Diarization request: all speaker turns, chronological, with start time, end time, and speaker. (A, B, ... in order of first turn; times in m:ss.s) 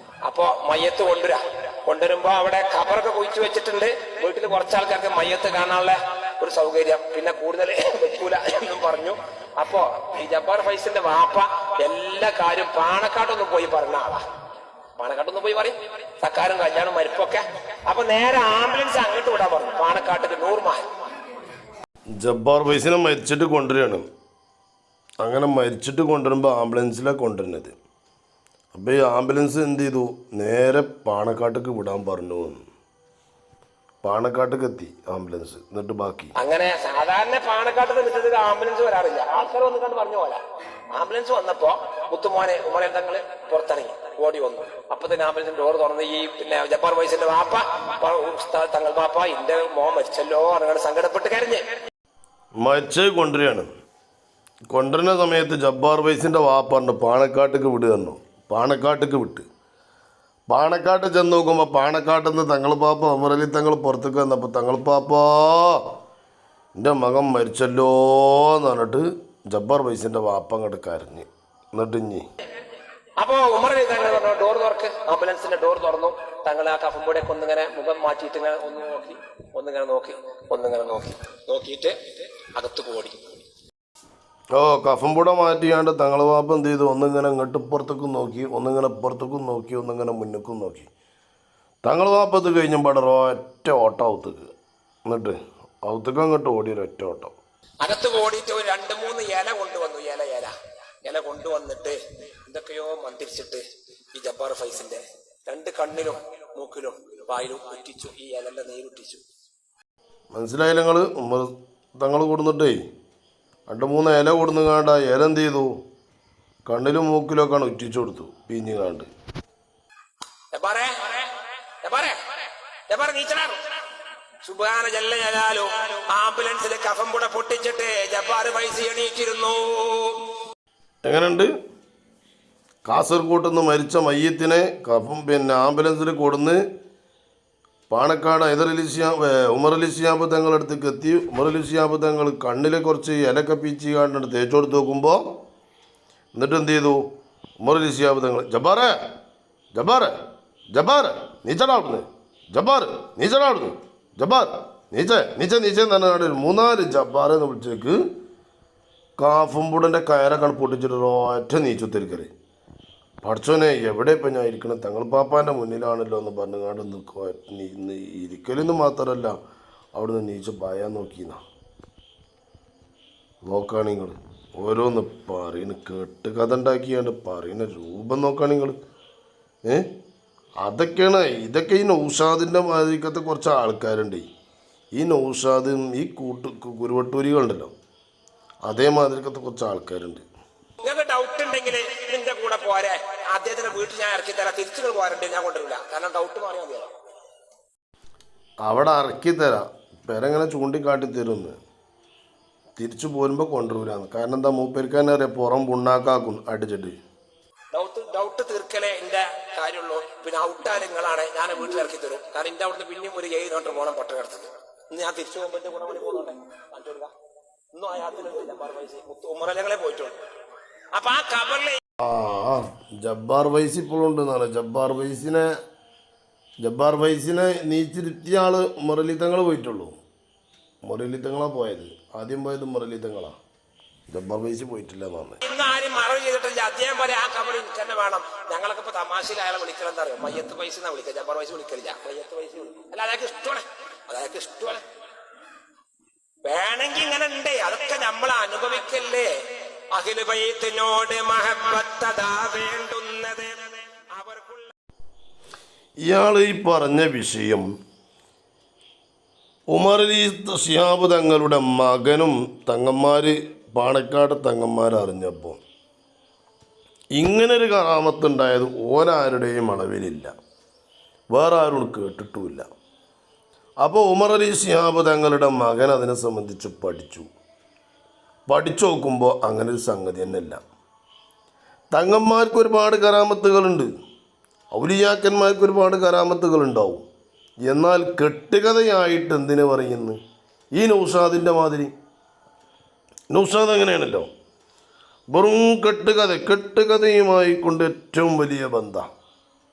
0:00.2-0:14.2 A
0:15.0-0:20.9 A
0:22.1-0:24.0 B
0:25.2-0:27.7 B
0:28.7-0:32.6 B
0:34.0-0:36.3 B
0:36.4-0:40.4 A
0:40.9-0:51.6 A
0:52.6-0:53.7 B
0:54.7-0:59.4 B
1:00.5-1:05.8 B
1:06.8-1:12.2 B
1:13.2-1:23.3 A
1:24.5-1:30.9 B
1:31.8-1:34.5 B
1:35.1-1:37.3 B
1:37.8-1:43.6 A
1:44.1-1:49.2 A
1:50.3-1:52.8 B
1:53.7-1:55.7 B
1:56.7-1:59.1 B
2:00.5-2:03.8 A
2:04.4-2:10.3 A
2:11.0-2:11.5 B
2:12.8-2:16.6 B
2:17.9-2:25.2 B
2:26.3-2:27.0 B
2:27.6-2:28.9 B
2:29.7-2:30.1 B
2:30.7-2:38.0 B
2:39.2-2:42.3 B
2:43.2-2:49.4 B
2:49.9-2:51.4 B
2:53.4-2:58.8 B
3:00.6-3:04.3 B
3:04.9-3:07.7 B
3:08.6-3:10.2 B
3:10.8-3:16.9 A
3:18.6-3:21.6 B
3:22.8-3:26.9 B
3:27.7-3:37.1 A
3:37.7-3:40.2 A
3:40.9-3:41.8 A
3:42.0-3:45.5 B
3:46.6-3:50.0 B
3:50.8-3:53.4 B
3:54.1-3:55.4 B
3:55.4-4:04.8 A
4:06.4-4:09.3 A
4:09.9-4:14.7 A
4:16.0-4:17.7 B
4:19.7-4:25.6 B
4:27.2-4:30.3 B
4:31.3-4:32.6 B
4:33.8-4:37.3 B
4:38.5-4:40.6 B
4:41.9-4:43.9 B
4:44.7-4:47.0 B
4:47.6-4:50.2 B
4:50.8-4:51.9 B
4:53.3-4:54.3 B
4:55.3-4:59.0 B